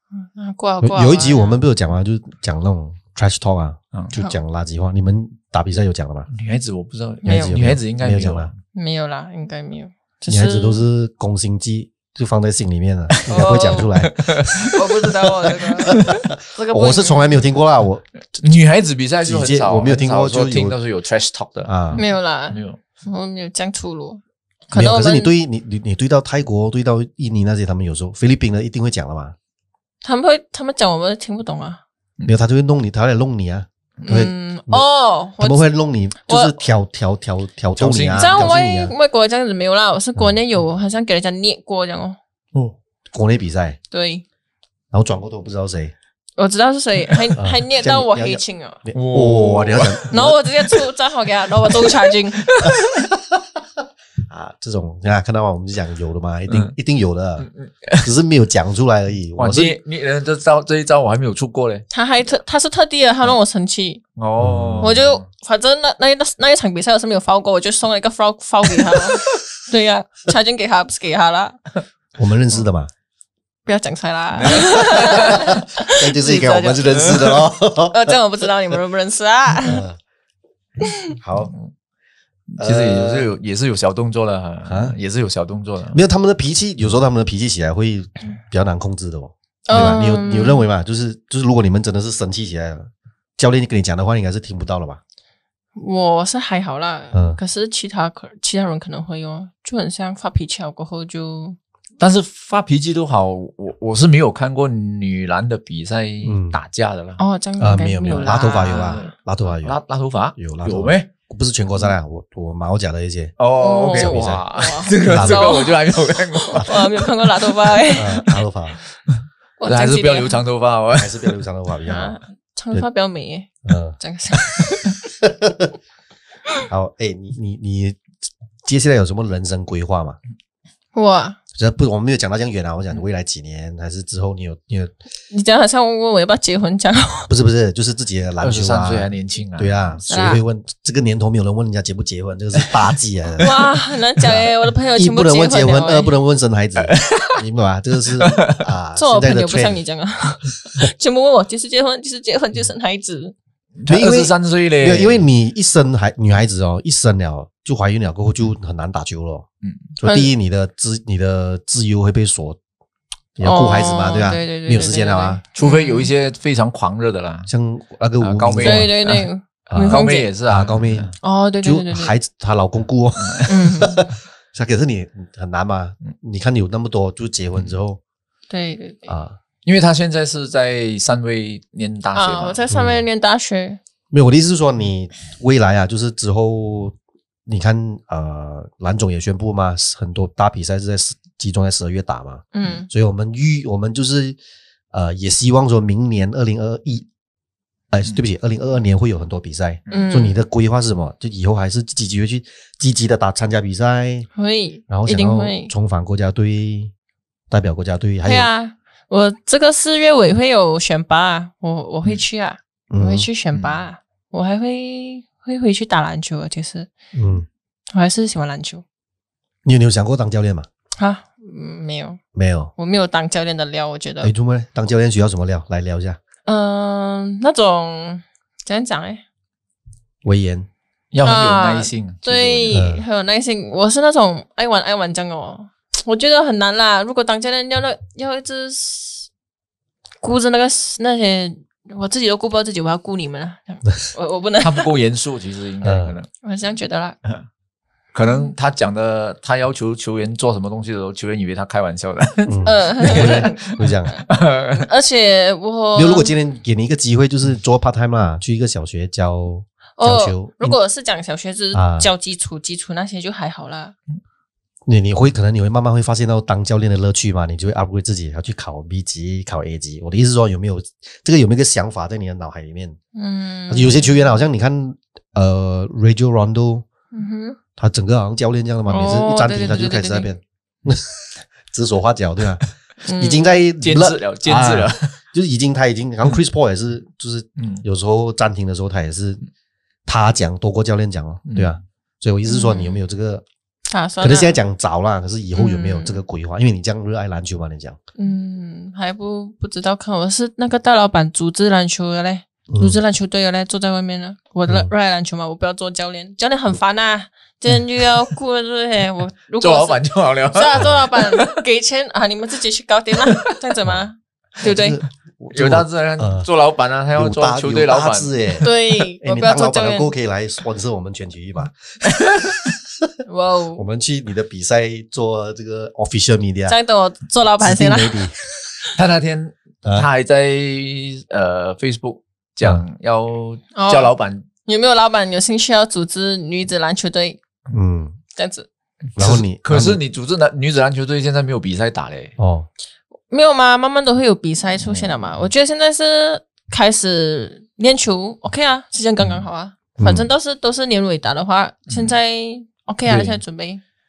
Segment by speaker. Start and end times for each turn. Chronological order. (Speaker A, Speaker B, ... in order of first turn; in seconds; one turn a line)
Speaker A: 0.1-1.6
Speaker B: 0.8-6.3
Speaker C: 6.3-8.6
Speaker B: 7.2-8.5
Speaker A: 7.3-7.6
Speaker A: 8.7-10.8
Speaker B: 10.3-14.7
Speaker A: 13.3-13.9
Speaker C: 13.9-14.8
Speaker A: 14.7-17.5
Speaker B: 15.9-18.1
Speaker C: 18.4-22.8
Speaker B: 19.2-20.8
Speaker B: 21.7-22.0
Speaker A: 22.0-25.3
Speaker B: 24.7-29.4
Speaker A: 30.0-31.8
Speaker B: 32.3-34.9
Speaker A: 34.0-35.7
Speaker B: 35.4-38.9
Speaker A: 36.3-36.6
Speaker C: 37.8-38.5
Speaker A: 38.2-42.2
Speaker B: 43.1-43.8
Speaker A: 43.9-44.2
Speaker B: 44.9-45.9
Speaker A: 46.4-48.8
Speaker B: 47.4-50.4
Speaker C: 48.9-50.1
Speaker A: 50.1-52.5
Speaker C: 51.8-53.1
Speaker B: 52.6-53.2
Speaker B: 54.3-57.5
Speaker C: 57.4-58.1
Speaker B: 58.0-59.8
Speaker C: 59.4-61.9
Speaker A: 61.9-64.0
Speaker C: 64.2-65.2
Speaker B: 64.4-65.0
Speaker A: 64.8-71.6
Speaker B: 72.2-72.9
Speaker A: 73.7-77.2
Speaker C: 74.4-75.5
Speaker B: 74.5-78.2
Speaker C: 76.9-77.3
Speaker A: 77.9-79.8
Speaker B: 79.6-80.0
Speaker A: 80.8-81.1
Speaker B: 81.2-81.5
Speaker C: 82.5-86.0
Speaker B: 82.6-83.3
Speaker B: 84.7-85.0
Speaker B: 85.9-95.0
Speaker A: 89.7-90.7
Speaker A: 95.8-101.6
Speaker B: 97.1-97.4
Speaker C: 102.0-107.2
Speaker B: 106.2-106.6
Speaker A: 107.2-109.1
Speaker B: 107.6-109.8
Speaker C: 108.1-111.1
Speaker B: 110.4-113.3
Speaker C: 113.4-117.8
Speaker A: 113.6-118.3
Speaker B: 113.9-114.4
Speaker B: 115.0-115.6
Speaker B: 118.0-118.8
Speaker C: 119.1-121.4
Speaker A: 119.6-120.4
Speaker B: 121.0-122.2
Speaker A: 121.9-124.9
Speaker B: 123.7-124.0
Speaker B: 125.2-125.7
Speaker B: 126.7-128.0
Speaker B: 128.6-130.2
Speaker A: 130.9-131.4
Speaker B: 131.6-134.9
Speaker A: 135.3-137.3
Speaker B: 137.3-143.6
Speaker C: 138.4-140.0
Speaker A: 140.1-140.4
Speaker C: 142.6-142.9
Speaker A: 143.4-146.1
Speaker B: 144.2-149.8
Speaker C: 146.8-147.4
Speaker C: 148.2-148.7
Speaker A: 149.0-153.3
Speaker C: 153.8-155.2
Speaker B: 153.9-159.5
Speaker B: 160.0-162.6
Speaker A: 160.0-160.3
Speaker B: 163.4-165.4
Speaker A: 163.4-166.1
Speaker C: 165.6-167.5
Speaker B: 167.5-168.9
Speaker C: 168.2-169.3
Speaker A: 168.6-170.3
Speaker B: 169.7-178.0
Speaker C: 169.8-171.1
Speaker A: 171.2-172.2
Speaker C: 173.2-173.5
Speaker A: 173.5-174.1
Speaker A: 178.5-179.1
Speaker B: 179.1-179.4
Speaker C: 179.7-182.6
Speaker A: 182.2-183.8
Speaker B: 182.7-183.0
Speaker B: 184.1-187.0
Speaker B: 187.5-194.4
Speaker A: 192.5-192.9
Speaker B: 194.9-197.1
Speaker B: 197.9-204.3
Speaker C: 199.9-200.1
Speaker A: 199.9-200.4
Speaker A: 204.4-205.7
Speaker B: 204.9-206.9
Speaker B: 207.5-208.5
Speaker A: 208.2-216.9
Speaker B: 212.9-213.3
Speaker C: 213.5-213.8
Speaker B: 217.1-217.5
Speaker A: 217.9-218.8
Speaker B: 219.7-220.7
Speaker A: 221.0-222.2
Speaker B: 222.3-222.7
Speaker A: 222.8-224.3
Speaker B: 224.2-226.2
Speaker A: 226.5-229.2
Speaker B: 230.2-230.7
Speaker C: 231.1-232.8
Speaker A: 231.2-239.3
Speaker B: 232.7-233.0
Speaker A: 240.2-244.9
Speaker C: 244.6-246.3
Speaker B: 245.8-246.2
Speaker A: 246.4-247.2
Speaker C: 248.1-254.9
Speaker A: 248.3-248.5
Speaker B: 252.5-254.2
Speaker A: 252.6-256.3
Speaker B: 255.9-260.8
Speaker A: 260.0-263.9
Speaker B: 261.7-262.1
Speaker B: 264.9-273.0
Speaker A: 273.1-274.2
Speaker B: 273.7-276.9
Speaker A: 277.1-277.6
Speaker B: 277.8-282.6
Speaker A: 278.9-280.3
Speaker A: 283.1-283.5
Speaker B: 283.2-289.4
Speaker C: 283.8-285.1
Speaker C: 287.6-287.8
Speaker B: 290.1-293.4
Speaker C: 291.5-291.8
Speaker A: 292.5-293.0
Speaker A: 293.9-294.6
Speaker B: 294.2-298.0
Speaker A: 295.6-296.2
Speaker A: 298.2-315.0
Speaker B: 302.7-303.0
Speaker C: 309.6-311.6
Speaker C: 313.2-313.5
Speaker B: 314.6-316.5
Speaker C: 315.5-318.6
Speaker B: 317.1-321.8
Speaker A: 318.6-320.1
Speaker C: 322.1-322.7
Speaker B: 322.4-323.0
Speaker A: 323.3-323.9
Speaker B: 323.8-326.8
Speaker A: 326.7-328.3
Speaker B: 327.6-328.4
Speaker C: 328.9-334.5
Speaker A: 333.8-334.1
Speaker A: 334.6-337.4
Speaker B: 337.7-338.2
Speaker A: 338.4-338.7
Speaker C: 339.2-342.3
Speaker B: 339.2-340.0
Speaker B: 342.4-342.7
Speaker A: 343.3-353.8
Speaker C: 344.8-345.1
Speaker B: 350.0-350.3